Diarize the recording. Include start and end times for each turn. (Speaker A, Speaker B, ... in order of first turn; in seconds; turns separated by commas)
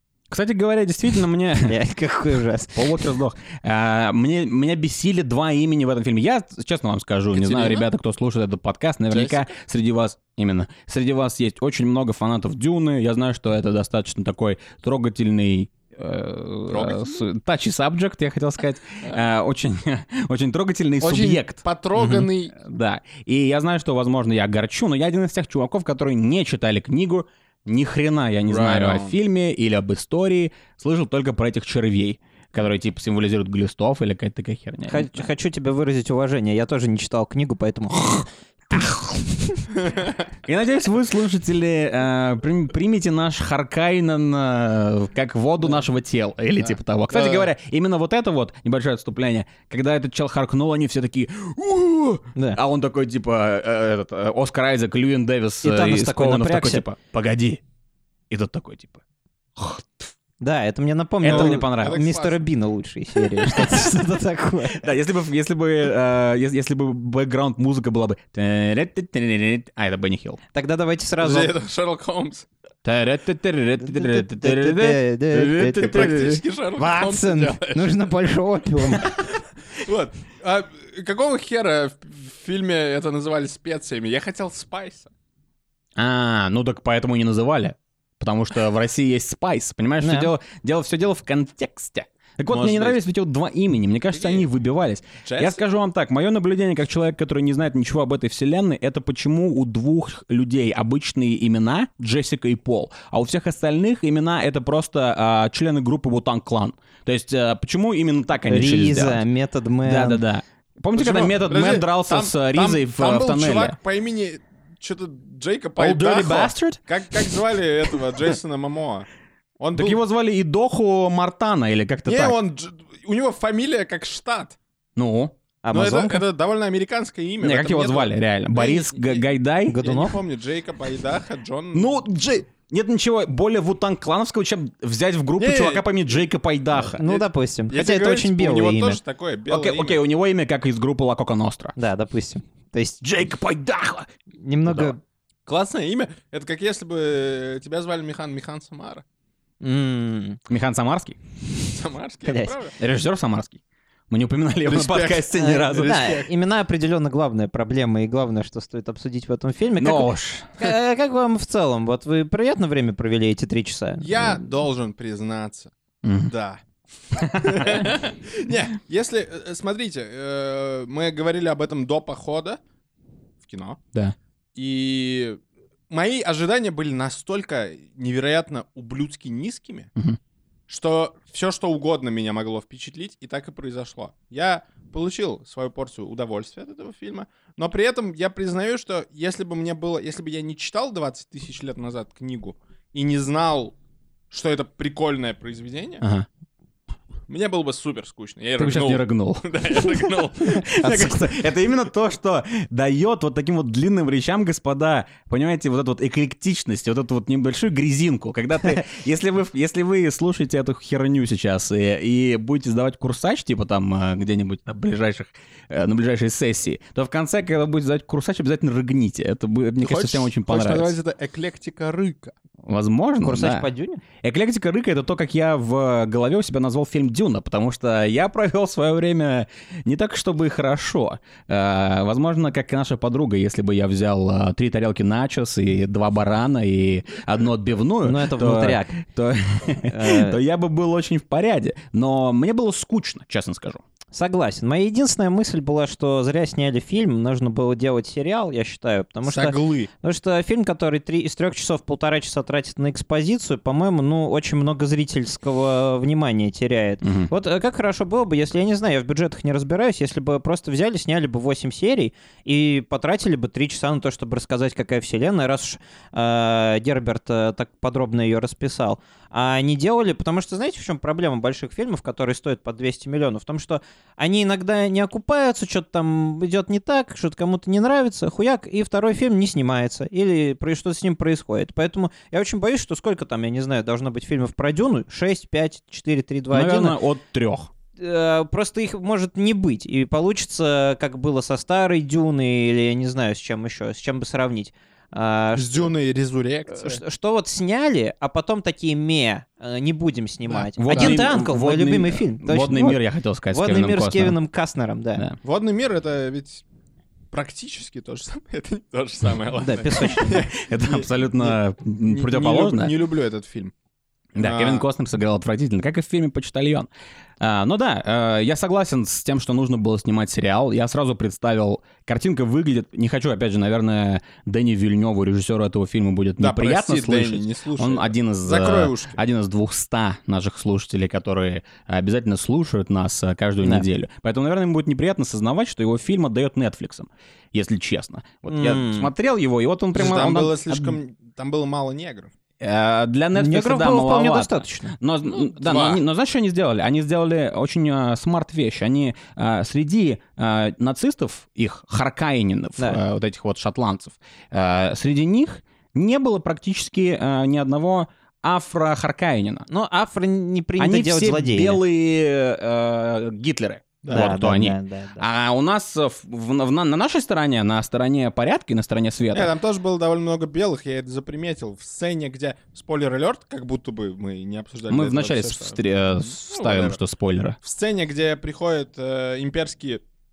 Speaker A: 0.3-1.7, Speaker B: 1.6-3.0, Speaker A: 2.7-35.2, Speaker C: 7.3-7.9, Speaker C: 9.1-9.5, Speaker C: 16.7-17.3, Speaker C: 21.0-22.5, Speaker C: 28.4-29.2, Speaker B: 34.9-38.8, Speaker A: 38.7-39.1, Speaker C: 39.8-40.1, Speaker A: 40.4-57.6, Speaker C: 47.1-47.5, Speaker B: 55.6-56.8, Speaker A: 58.3-59.0, Speaker A: 59.5-60.1, Speaker B: 60.4-64.8, Speaker A: 61.2-62.0, Speaker C: 61.2-62.5, Speaker A: 63.4-63.8, Speaker A: 64.7-70.4, Speaker B: 70.5-71.5, Speaker C: 71.2-72.5, Speaker A: 72.8-76.4, Speaker B: 73.8-79.2, Speaker C: 75.8-78.0, Speaker C: 78.8-85.1, Speaker A: 86.0-109.2, Speaker B: 90.0-90.3, Speaker C: 92.5-93.0, Speaker C: 94.1-94.5, Speaker C: 95.2-95.6, Speaker B: 108.5-110.2, Speaker A: 109.8-113.8, Speaker C: 110.9-119.1, Speaker A: 115.8-116.8, Speaker C: 119.6-120.0, Speaker A: 119.7-122.3, Speaker C: 122.0-124.6, Speaker A: 125.0-125.3, Speaker B: 125.6-126.2, Speaker C: 125.7-132.0, Speaker A: 127.4-129.8, Speaker B: 129.7-130.2, Speaker A: 131.7-137.0, Speaker C: 135.4-135.8, Speaker B: 136.9-139.0, Speaker C: 137.0-140.0, Speaker A: 139.5-141.7, Speaker B: 141.8-143.0, Speaker A: 143.0-144.1, Speaker B: 144.4-145.0, Speaker A: 144.6-144.9, Speaker C: 145.4-149.0, Speaker B: 149.6-150.4, Speaker A: 150.5-151.2, Speaker C: 151.7-152.7, Speaker B: 152.2-152.6, Speaker A: 152.8-156.0, Speaker C: 154.6-156.3, Speaker B: 155.3-164.4, Speaker A: 159.8-160.6, Speaker C: 164.0-166.6, Speaker A: 166.0-166.3, Speaker C: 167.1-172.6, Speaker A: 167.2-167.9, Speaker C: 173.4-173.8, Speaker C: 174.5-179.9, Speaker C: 180.7-193.7, Speaker C: 194.3-196.0, Speaker A: 196.0-196.2, Speaker C: 197.3-200.7, Speaker A: 198.6-199.5, Speaker A: 200.4-220.9, Speaker B: 200.8-201.2, Speaker C: 219.8-222.3, Speaker A: 222.6-223.7, Speaker B: 223.2-224.0, Speaker A: 224.2-243.8, Speaker B: 238.0-239.0, Speaker B: 239.9-240.4, Speaker B: 244.1-287.0, Speaker C: 249.2-249.9, Speaker A: 257.0-257.3, Speaker A: 286.5-287.7, Speaker B: 288.0-295.9, Speaker C: 295.5-297.0, Speaker B: 296.7-305.2, Speaker C: 300.5-301.2, Speaker A: 300.8-304.4, Speaker C: 305.4-306.6, Speaker C: 307.3-313.7, Speaker B: 309.6-310.4, Speaker A: 310.2-312.9, Speaker A: 314.3-316.9, Speaker C: 314.4-314.9, Speaker A: 317.4-340.9, Speaker C: 326.4-329.2, Speaker B: 338.5-339.1, Speaker C: 339.9-342.3, Speaker A: 342.6-359.7, Speaker B: 343.3-344.9, Speaker C: 345.3-346.0, Speaker B: 359.7-361.8, Speaker A: 360.8-369.5, Speaker C: 364.0-364.3, Speaker B: 364.1-365.2, Speaker C: 369.3-377.0, Speaker A: 374.9-377.6, Speaker C: 377.6-380.0